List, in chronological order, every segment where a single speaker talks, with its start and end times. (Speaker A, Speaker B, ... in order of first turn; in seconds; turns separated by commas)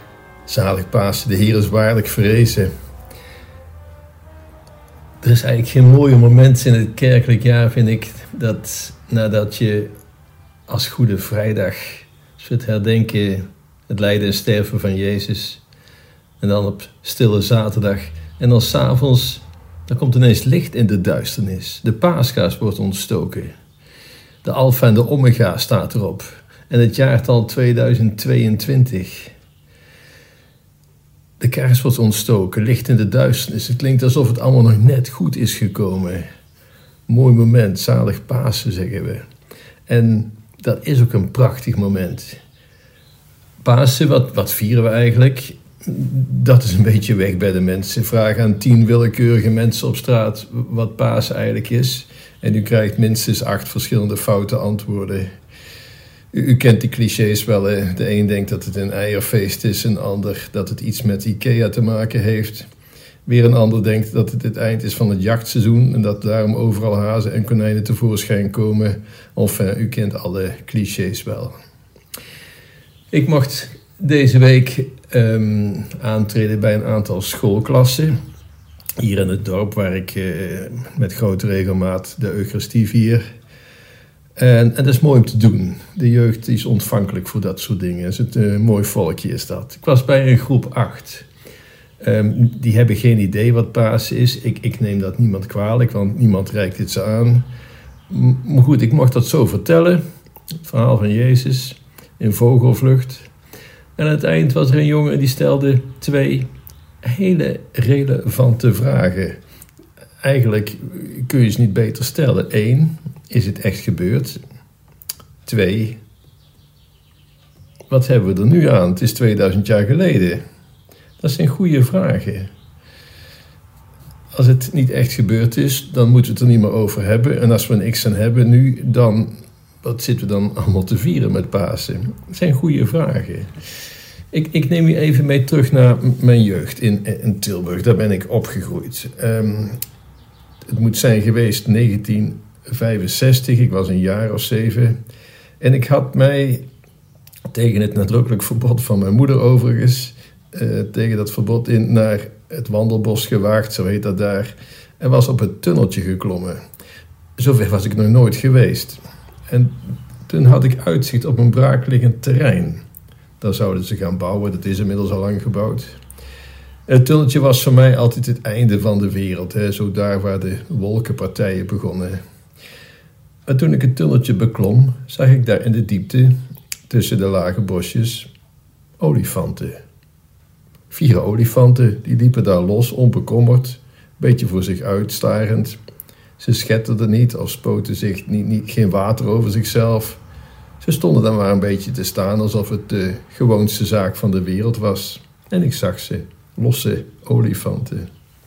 Speaker A: 0.5-2.7, Speaker A: 5.2-9.9, Speaker A: 10.7-15.6, Speaker A: 16.4-23.5, Speaker A: 24.4-29.3, Speaker A: 31.4-36.2, Speaker A: 37.1-39.2, Speaker A: 39.9-42.4, Speaker A: 43.6-55.3, Speaker A: 56.3-62.7, Speaker A: 63.2-71.5, Speaker A: 73.1-78.2, Speaker A: 79.0-83.2, Speaker A: 84.4-91.3, Speaker A: 92.0-97.5, Speaker A: 98.1-100.0, Speaker A: 100.6-103.3, Speaker A: 104.0-106.5, Speaker A: 107.0-109.4, Speaker A: 110.2-114.4, Speaker A: 115.4-116.0, Speaker A: 117.9-120.4, Speaker A: 121.2-122.5, Speaker A: 124.3-133.5, Speaker A: 134.3-139.8, Speaker A: 140.7-145.0, Speaker A: 145.6-146.6, Speaker A: 147.5-156.6, Speaker A: 157.4-162.8, Speaker A: 163.4-166.0, Speaker A: 166.9-172.2, Speaker A: 173.5-176.3, Speaker A: 176.9-178.3, Speaker A: 179.0-179.8, Speaker A: 180.9-185.8, Speaker A: 186.4-190.2, Speaker A: 190.8-198.1